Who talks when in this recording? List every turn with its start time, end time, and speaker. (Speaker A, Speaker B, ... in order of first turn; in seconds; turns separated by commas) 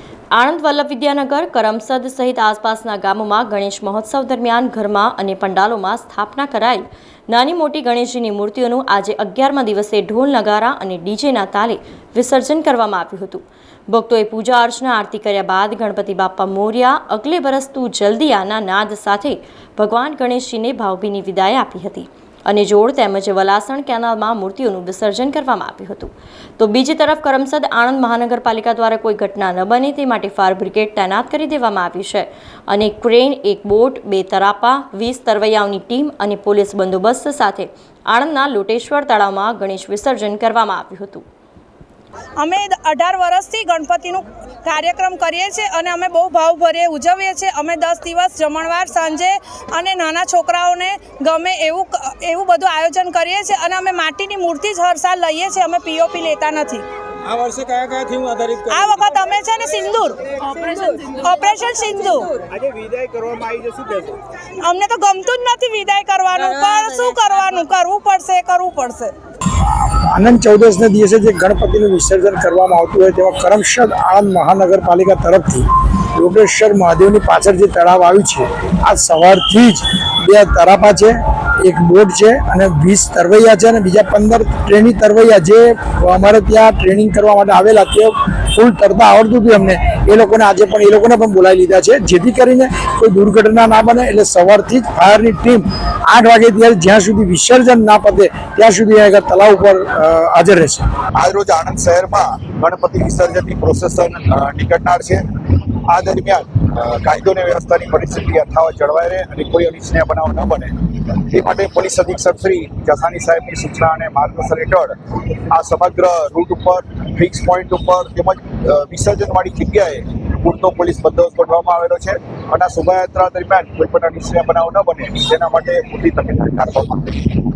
Speaker A: 0.3-41.2, Speaker B: 42.4-56.9, Speaker C: 57.2-58.8, Speaker B: 58.7-62.3, Speaker C: 62.7-64.2, Speaker B: 64.6-69.1, Speaker D: 69.8-100.9, Speaker E: 101.2-105.2, Speaker E: 105.9-115.0, Speaker E: 115.5-127.4